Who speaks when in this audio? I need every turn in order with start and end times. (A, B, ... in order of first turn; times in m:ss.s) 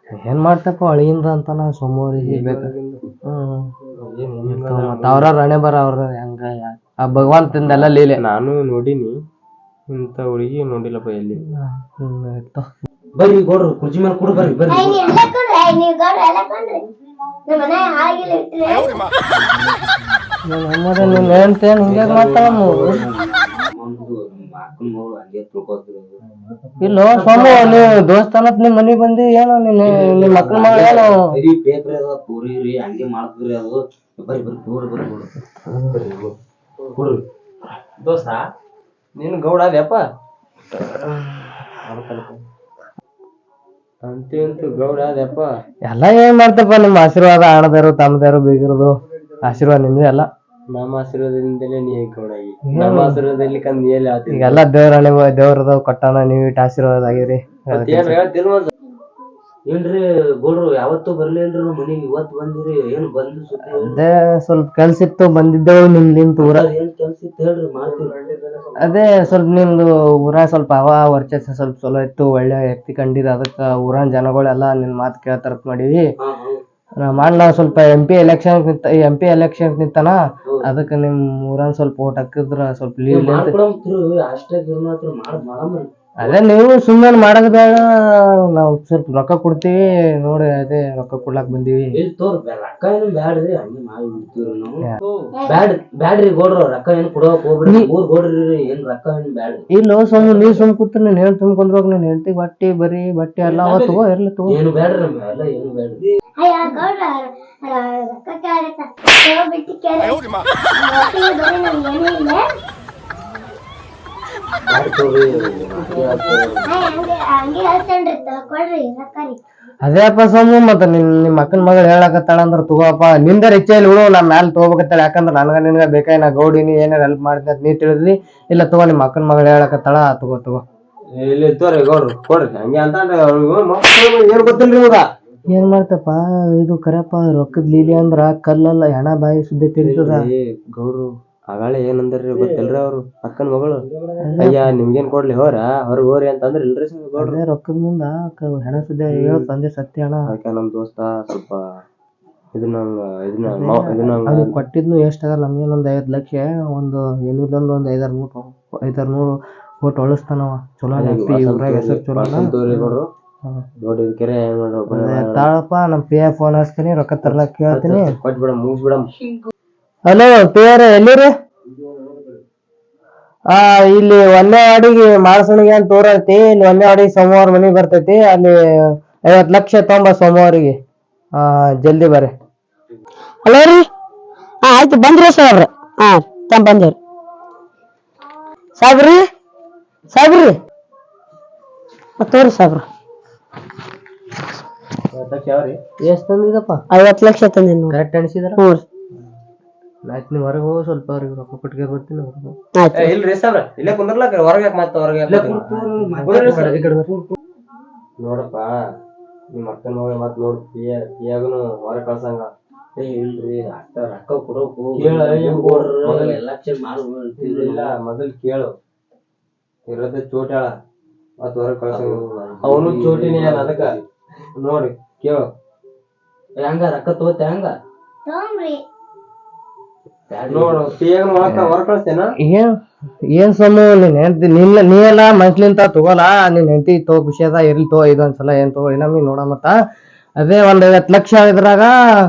0:00.2-0:02.7 A
0:02.2-0:03.0 B
0:03.3-0:03.7 A
0:04.0-0:05.3 B
0:04.5-0:08.2 A
0:07.6-0:09.1 B
0:09.9-0:11.4 B
0:11.4-0:12.7 A
0:13.2-0:15.3 C
0:14.7-0:16.8 D
0:17.5-0:19.1 D
0:20.5-0:23.0 A
0:21.0-0:26.2 C
0:26.8-0:31.4 A
0:27.1-0:27.8 B
0:27.1-0:27.9 C
0:29.8-0:35.3 C
0:35.9-0:36.2 C
0:37.0-0:37.2 C
0:38.0-0:38.4 C
0:39.2-0:40.0 B
0:41.8-0:42.4 B
0:44.0-0:45.5 B
0:45.9-0:50.3 A
0:50.7-0:54.6 B
0:52.7-0:53.2 A
0:54.3-0:58.2 A
0:57.7-0:58.7 B
0:59.7-1:04.0 C
1:03.7-1:06.7 A
1:06.4-1:08.2 C
1:08.0-1:09.3 B
1:08.8-1:16.0 A
1:16.2-1:16.6 C
1:17.0-1:23.6 A
1:23.1-1:26.4 C
1:26.2-1:32.0 A
1:31.9-1:34.8 C
1:35.3-1:35.6 D
1:35.4-1:39.7 C
1:39.7-1:44.6 A
1:40.2-1:40.6 C
1:43.4-1:46.1 C
1:46.4-1:50.2 D
1:50.8-1:52.4 D
1:54.7-1:57.0 C
1:56.7-1:59.4 D
1:59.8-2:10.6 A
2:11.1-2:15.0 B
2:15.5-2:20.3 A
2:19.8-2:23.9 B
2:22.4-2:22.7 C
2:23.9-2:24.2 C
2:24.2-2:24.7 A
2:24.4-2:27.4 B
2:27.2-2:30.3 A
2:29.1-2:29.5 B
2:30.3-2:31.6 B
2:32.5-2:34.5 B
2:33.5-2:43.0 A
2:41.0-2:43.1 B
2:43.8-2:45.5 B
2:44.9-2:48.1 A
2:47.2-2:49.1 B
2:50.1-2:51.3 A
2:53.5-3:00.8 A
3:01.4-3:02.3 A
3:03.4-3:03.9 E
3:04.6-3:07.0 E
3:08.8-3:09.3 E
3:10.1-3:10.6 E
3:12.2-3:12.8 E
3:15.1-3:15.8 B
3:16.0-3:16.8 A
3:16.9-3:17.9 E
3:17.9-3:18.6 A
3:20.1-3:22.6 A
3:22.8-3:23.1 E
3:22.9-3:25.6 B
3:25.3-3:27.2 C
3:26.2-3:27.1 A
3:26.2-3:26.7 B
3:28.2-3:28.8 B
3:29.5-3:32.5 B
3:33.0-3:37.9 C
3:35.0-3:36.4 B
3:37.4-3:38.7 B
3:39.9-3:40.7 B
3:41.4-3:44.0 B
3:41.9-3:44.0 C
3:44.6-3:45.5 B
3:46.6-3:47.7 C
3:48.3-3:48.8 D
3:50.3-3:51.8 C
3:50.5-3:52.3 B
3:52.4-3:52.7 A
3:53.3-3:59.7 A
4:00.4-4:02.0 A